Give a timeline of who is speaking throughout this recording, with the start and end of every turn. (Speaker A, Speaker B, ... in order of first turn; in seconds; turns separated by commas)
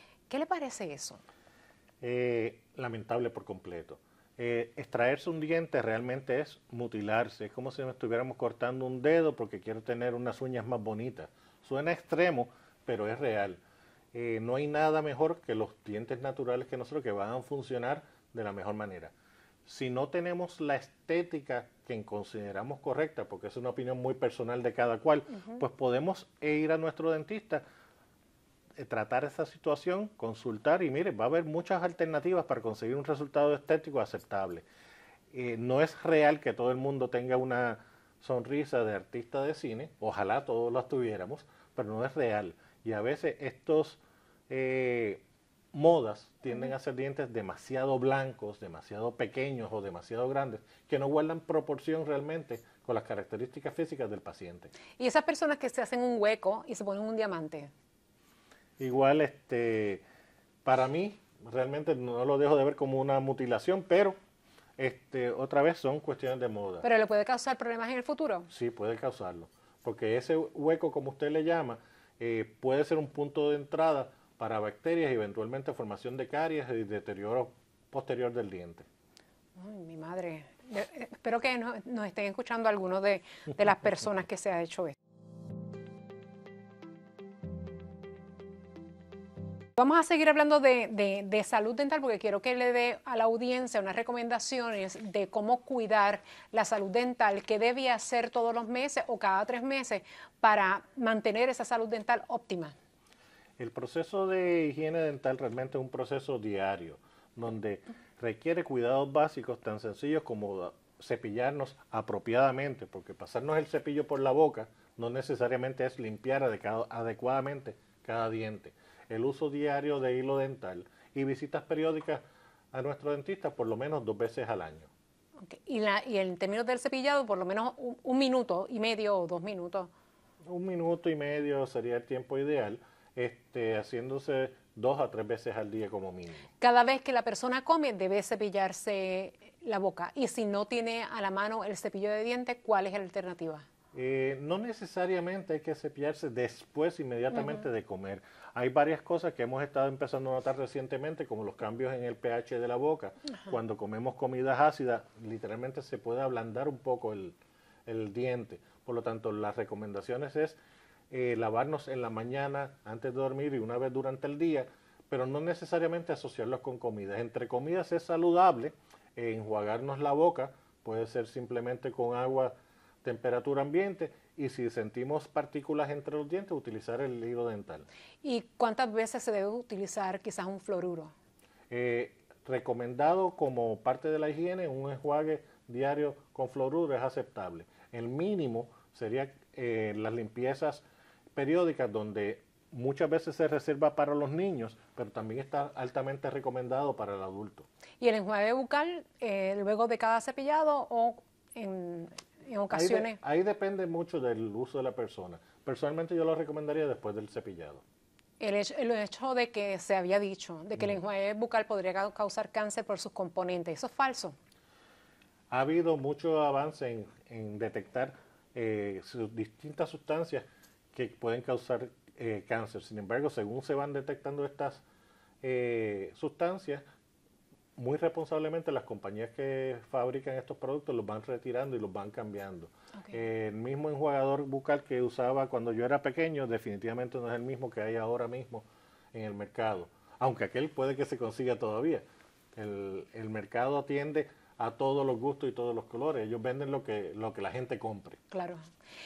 Speaker A: 0.3-1.2, Speaker B: 2.0-13.6, Speaker B: 14.1-19.1, Speaker B: 19.7-27.6, Speaker B: 28.8-34.6, Speaker B: 35.3-54.7, Speaker A: 55.0-57.7, Speaker B: 58.8-60.0, Speaker B: 60.6-64.2, Speaker B: 64.8-66.9, Speaker A: 66.8-68.5, Speaker B: 68.5-78.9, Speaker A: 79.6-85.0, Speaker A: 89.8-102.8, Speaker B: 103.6-124.9, Speaker A: 125.4-129.9, Speaker B: 130.4-136.5, Speaker A: 136.6-143.7, Speaker B: 143.9-160.6, Speaker A: 147.3-147.6, Speaker B: 161.1-177.9, Speaker A: 178.2-181.1, Speaker B: 181.7-197.7, Speaker A: 198.0-203.2, Speaker B: 202.7-207.8, Speaker A: 208.4-214.4, Speaker B: 215.5-224.8, Speaker B: 225.4-226.8, Speaker B: 227.8-248.2, Speaker A: 248.3-248.6